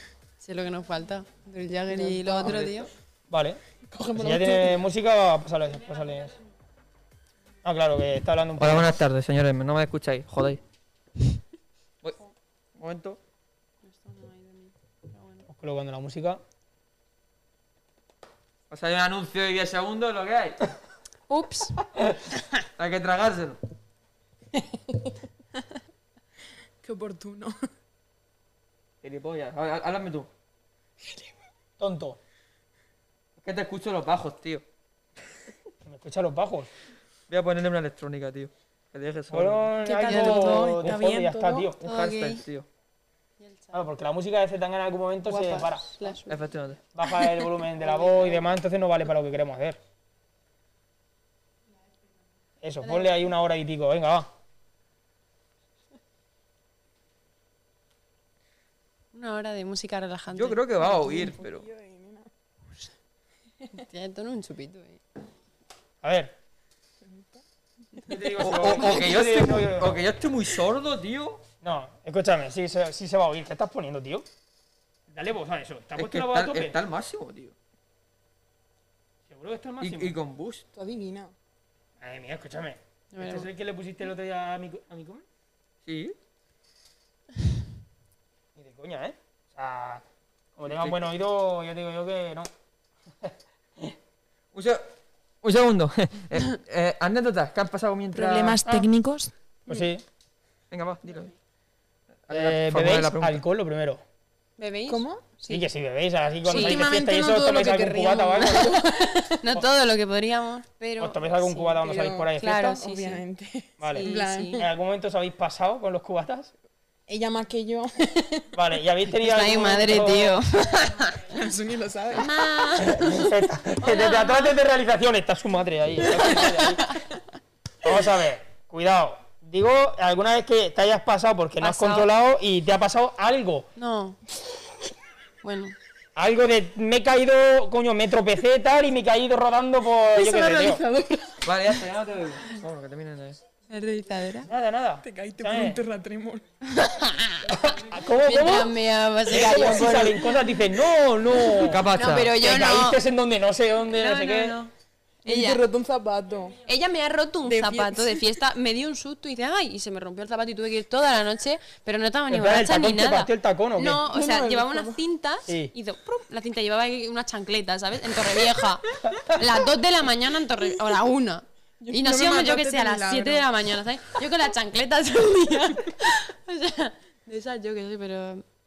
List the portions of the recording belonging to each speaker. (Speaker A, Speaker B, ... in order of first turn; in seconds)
Speaker A: 0.4-2.9, 13.8-15.4, 21.3-21.7, 39.9-40.8, 41.8-42.4, 43.4-43.8, 45.2-46.4, 47.8-48.4, 52.8-53.1, 59.1-60.6, 63.7-65.0, 83.1-83.5, 104.6-105.7, 106.5-106.8, 108.3-113.2, 113.9-114.6, 119.2-121.2, 122.2-123.2, 123.8-124.5, 126.2-127.0, 131.6-132.1, 133.8-134.2, 135.4-135.7, 143.7-144.5, 146.6-147.5, 148.1-150.2, 151.9-153.0, 153.9-154.7, 155.2-155.6, 156.6-178.4
Speaker B: 1.9-2.6, 3.9-4.8, 26.8-27.6, 39.9-41.7, 60.8-62.3, 67.0-67.4, 80.7-81.3, 98.1-99.8, 104.9-105.3, 106.5-109.3, 111.9-112.2, 112.8-114.7, 117.1-118.4, 121.3-122.3, 140.2-141.5, 145.0-146.4, 149.3-150.2, 155.2-156.6, 157.4-158.2, 164.0-165.0, 171.8-173.5
Speaker C: 2.4-2.9, 8.6-10.6, 12.8-13.2, 18.7-20.6, 22.8-23.6, 29.0-30.3, 33.4-34.6, 37.3-39.7, 41.8-42.6, 46.3-46.8, 60.3-61.6, 68.4-71.4, 76.0-77.5, 79.8-80.6, 85.9-86.1, 90.7-91.0, 94.5-94.8, 95.4-98.6, 100.7-101.3, 102.3-103.4, 141.4-143.4, 151.6-152.3
Speaker D: 3.3-3.6, 4.2-6.4, 7.6-9.0, 15.5-16.4, 31.8-32.2, 35.8-36.7, 39.3-41.8, 43.7-46.1, 46.9-49.8, 52.6-54.3, 66.0-66.3, 68.1-70.0, 71.6-74.2, 75.1-76.8, 79.3-80.1, 82.0-85.2, 88.5-90.0, 90.6-92.5, 93.2-93.9, 99.7-100.0, 102.3-104.0, 105.5-108.8, 111.0-112.8, 113.8-116.5, 118.5-120.4, 122.8-126.9, 127.8-133.7, 136.2-140.8, 144.4-145.8, 147.5-148.8, 149.3-154.6, 162.3-164.1, 165.5-165.7